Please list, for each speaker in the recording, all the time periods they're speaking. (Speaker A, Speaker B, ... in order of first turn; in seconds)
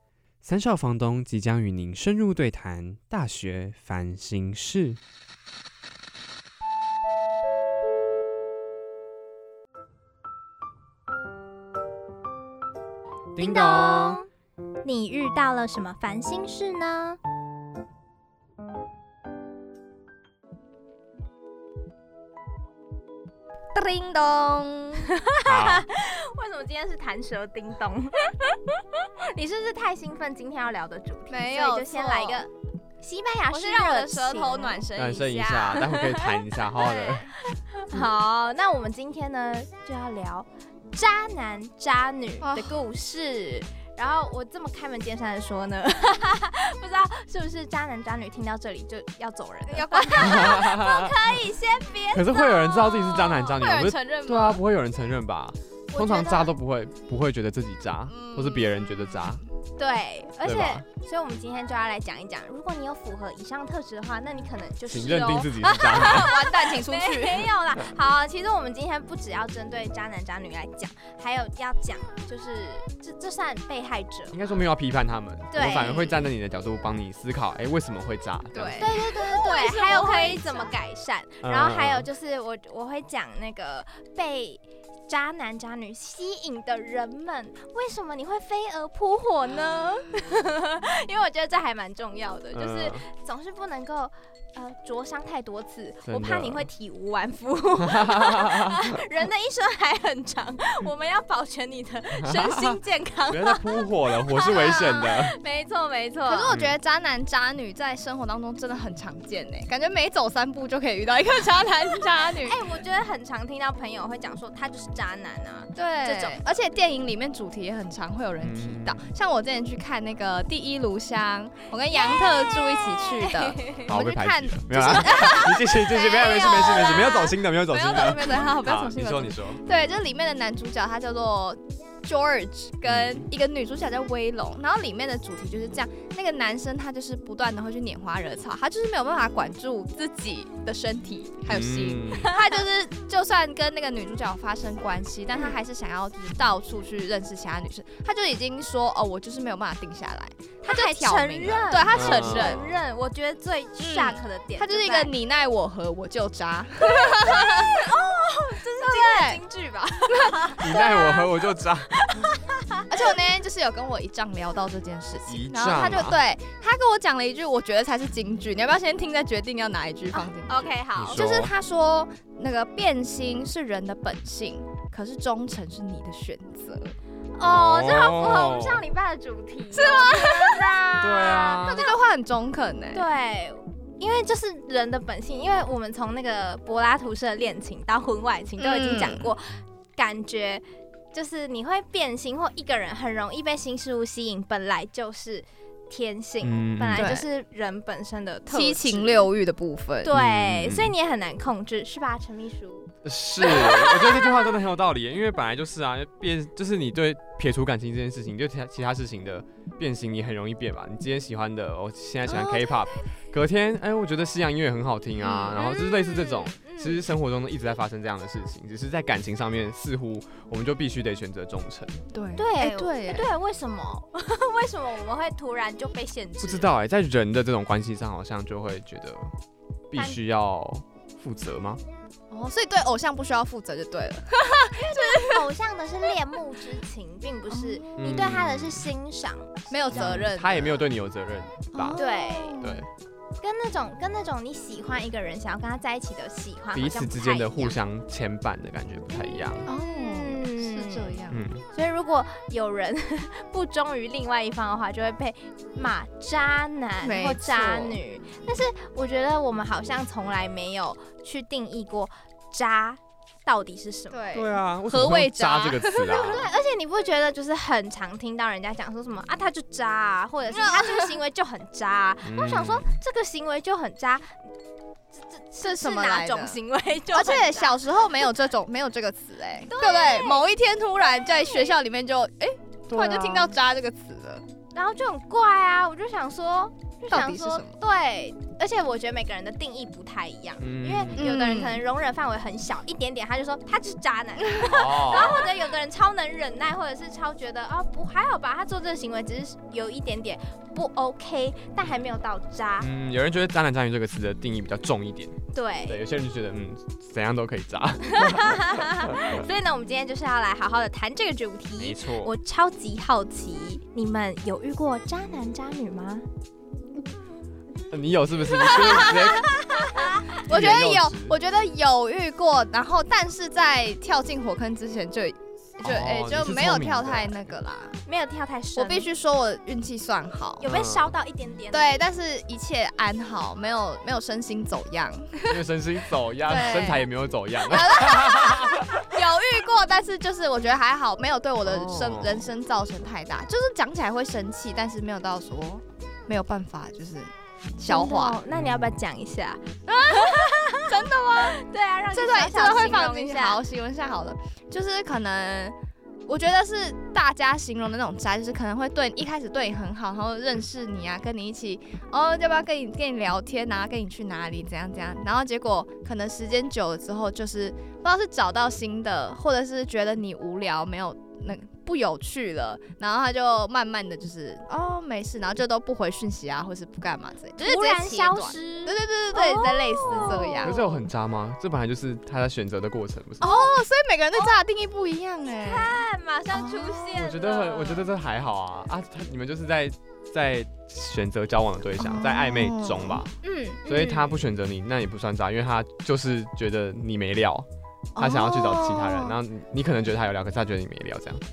Speaker A: 0.4-5.0, 13.3-14.2, 25.4-25.9, 35.0-37.3, 50.2-51.4, 52.1-59.4, 60.4-60.8, 64.8-66.4, 74.3-78.9, 81.4-82.1, 92.5-93.0, 96.1-96.7, 97.9-98.8, 102.2-105.3, 106.5-106.7, 118.4-119.0, 123.8-129.6, 132.8-133.2, 141.5-142.3, 151.9-152.8, 160.6-162.3, 165.2-166.2, 171.0-171.5, 177.4-178.8, 181.0-181.9, 196.4-197.2, 200.1-200.9, 203.0-222.0, 226.4-229.3, 229.9-231.8, 238.0-238.9, 239.9-242.0, 242.6-242.9, 246.7-249.7, 251.3-251.6, 264.3-266.5, 272.2-272.9, 282.9-283.6, 290.6-291.2, 294.6-295.5, 302.8-309.2, 311.8-312.3, 317.9-321.4, 325.8-327.5, 330.6-331.1, 335.5-339.1, 341.6-342.5, 348.5-348.9, 380.0-383.7, 387.1-393.3, 393.8-401.4
Speaker B: 13.4-14.3, 14.8-17.2, 25.1-32.5, 33.0-34.8, 37.4-53.9, 55.9-56.5, 59.8-74.3, 75.5-76.2, 78.8-106.5, 112.4-116.4, 121.9-123.9, 125.1-125.4, 126.5-127.1, 150.6-155.1, 156.8-161.4, 162.0-162.9, 170.1-171.3, 177.3-181.9, 182.9-199.3, 200.0-202.9, 203.4-204.2, 212.3-212.7, 215.6-217.0, 222.3-226.7, 229.9-230.2, 234.7-240.3, 241.9-242.6, 243.4-247.8, 249.1-251.2, 251.7-264.3, 266.1-274.5, 275.1-277.9, 279.7-280.4, 281.3-281.7, 284.7-302.9, 305.5-306.0, 308.0-316.2, 319.7-320.3, 328.1-329.1, 330.6-331.9, 347.9-353.6, 377.6-380.9, 384.3-384.6, 385.6-388.1, 393.4-394.3
Speaker C: 23.7-25.1, 31.3-32.5, 33.5-36.0, 36.8-37.3, 42.4-42.8, 49.7-50.6, 53.5-54.6, 58.1-59.3, 65.9-67.5, 78.5-80.7, 106.3-112.7, 115.8-152.7, 153.8-157.9, 158.8-159.4, 160.1-160.8, 162.9-176.9, 179.7-183.0, 188.6-189.3, 196.9-197.2, 198.5-200.1, 215.2-215.6, 222.1-223.3, 232.3-235.5, 237.5-237.9, 239.7-240.9, 241.7-242.8, 249.7-251.4, 257.0-258.0, 264.1-266.5, 270.5-271.1, 275.6-276.6, 277.1-284.4, 287.1-287.8, 291.2-291.8, 318.6-328.0, 328.7-330.7, 331.7-335.6, 336.4-337.0, 337.6-348.4, 349.9-351.6, 352.1-355.8, 356.3-381.0, 383.4-387.1, 392.0-393.2, 398.1-399.4